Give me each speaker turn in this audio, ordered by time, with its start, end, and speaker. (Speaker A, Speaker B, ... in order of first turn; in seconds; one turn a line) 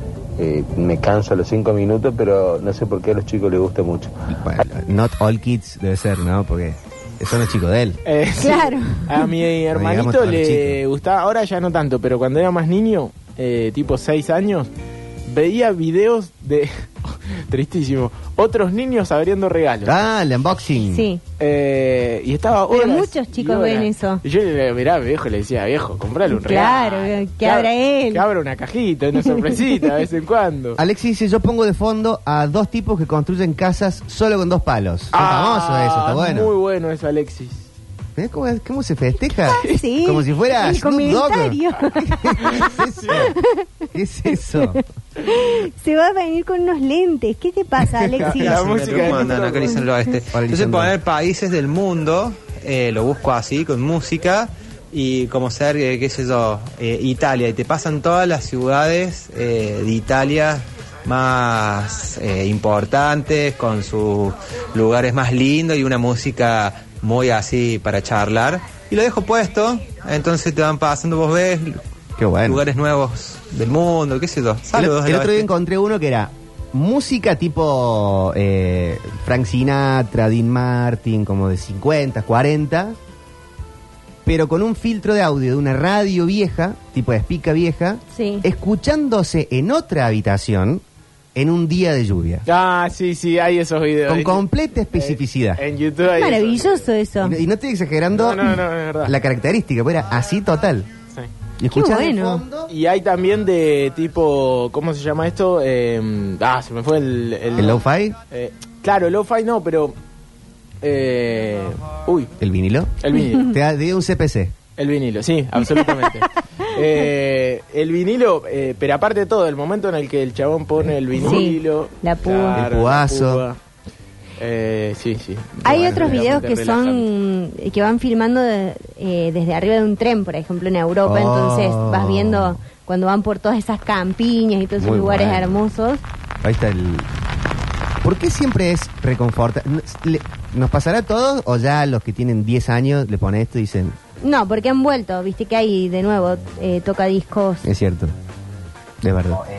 Speaker A: 0.4-4.1
Speaker B: 4.3-8.0
Speaker C: 8.0-14.7
Speaker D: 8.4-9.2
Speaker B: 9.7-10.8
Speaker C: 15.3-20.0
Speaker B: 19.8-21.1
Speaker D: 20.9-21.2
Speaker C: 21.4-30.8
Speaker D: 22.7-24.2
Speaker D: 26.3-28.2
Speaker B: 30.8-36.5
Speaker C: 35.1-37.7
Speaker B: 38.1-43.3
Speaker D: 39.6-43.6
Speaker C: 42.6-43.2
Speaker B: 43.9-44.8
Speaker D: 44.5-48.6
Speaker C: 48.2-49.8
Speaker E: 48.2-71.8
Speaker B: 50.3-50.9
Speaker B: 72.2-72.6
Speaker E: 72.5-75.5
Speaker B: 74.7-83.0
Speaker B: 84.2-90.8
Speaker D: 88.1-88.5
Speaker B: 91.3-92.4
Speaker C: 92.5-96.9
Speaker B: 94.1-95.6
Speaker D: 96.1-97.3
Speaker B: 97.2-100.9
Speaker C: 98.1-99.1
Speaker B: 101.6-102.7
Speaker D: 101.7-102.4
Speaker C: 102.7-109.9
Speaker B: 107.5-108.2
Speaker C: 110.8-112.3
Speaker B: 112.4-114.5
Speaker C: 113.0-113.5
Speaker C: 114.8-123.6
Speaker D: 121.2-122.6
Speaker B: 122.5-123.4
Speaker C: 124.4-127.0
Speaker D: 125.6-136.0
Speaker B: 125.7-126.2
Speaker B: 131.0-132.6
Speaker B: 134.8-135.6
Speaker B: 136.4-137.1
Speaker B: 138.0-143.9
Speaker D: 144.2-147.7
Speaker B: 147.6-148.1
Speaker B: 149.0-149.4